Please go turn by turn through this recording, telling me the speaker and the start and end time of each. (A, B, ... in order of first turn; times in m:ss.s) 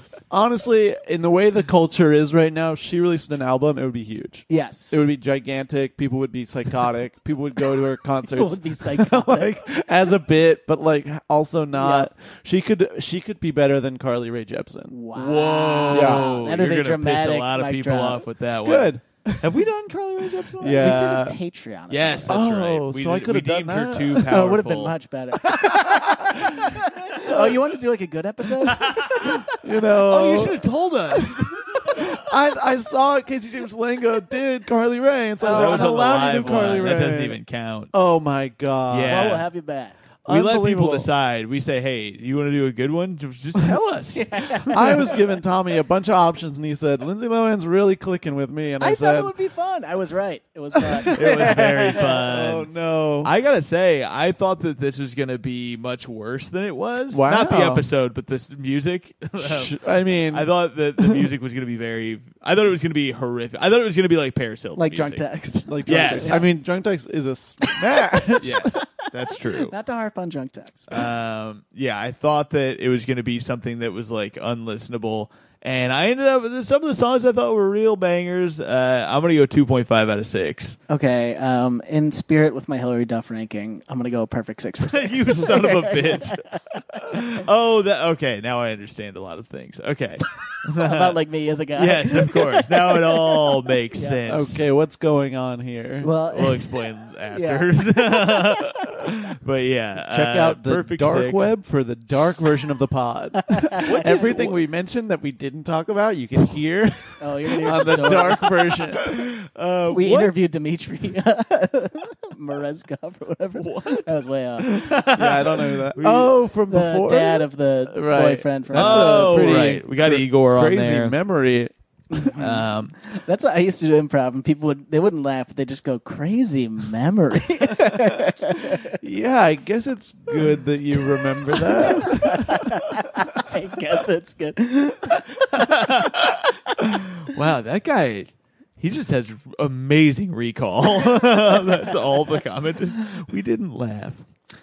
0:00.3-0:15.0 A
0:04.5-0:05.0 B
0:08.3-0:09.6 B
0:11.7-0:12.1 B
0:14.9-0:18.2 B
0:15.1-0:21.1 C
0:15.9-0:16.3 A
0:18.6-0:19.5 A
0:20.6-0:21.4 A
0:20.6-0:22.4 B
0:21.9-0:24.9 C
0:22.3-0:24.3 A
0:24.2-0:29.4 B
0:25.9-0:26.7 A
0:27.2-0:27.6 A
0:28.6-0:29.4 C
0:29.6-0:30.6 A
0:30.0-0:32.2 C
0:31.2-0:37.4 A
0:35.4-0:36.2 B
0:35.4-0:37.9 C
0:37.9-0:39.4 A
0:38.9-0:39.4 C
0:39.0-0:40.0 B
0:40.2-0:41.1 A
0:40.3-0:45.0 C
0:44.1-0:45.2 B
0:44.7-0:49.3 A
0:48.8-0:52.2 B
0:50.9-0:53.3 A
0:51.1-1:05.3 C
0:57.1-0:57.8 A
0:59.4-1:01.2 A
1:04.8-1:06.5 B
1:05.7-1:08.8 A
1:05.8-1:06.4 C
1:08.4-1:09.7 C
1:09.4-1:11.0 B
1:10.9-1:20.8 C
1:20.9-1:26.6 B
1:24.8-1:26.4 C
1:26.9-1:31.2 C
1:30.8-1:34.2 B
1:31.7-1:34.6 C
1:34.3-1:36.1 A
1:36.0-1:36.8 B
1:36.3-1:41.5 C
1:37.3-1:38.6 B
1:40.1-1:49.1 A
1:43.6-1:44.4 B
1:43.8-1:44.6 C
1:47.2-1:48.7 B
1:49.1-1:50.3 C
1:49.9-1:54.8 B
1:53.6-1:56.4 C
1:55.1-2:01.7 A
1:56.7-1:59.7 B
1:58.7-2:01.2 C
2:02.1-2:08.8 B
2:02.4-2:03.0 C
2:09.0-2:12.7 A
2:11.6-2:16.0 B
2:15.5-2:24.2 C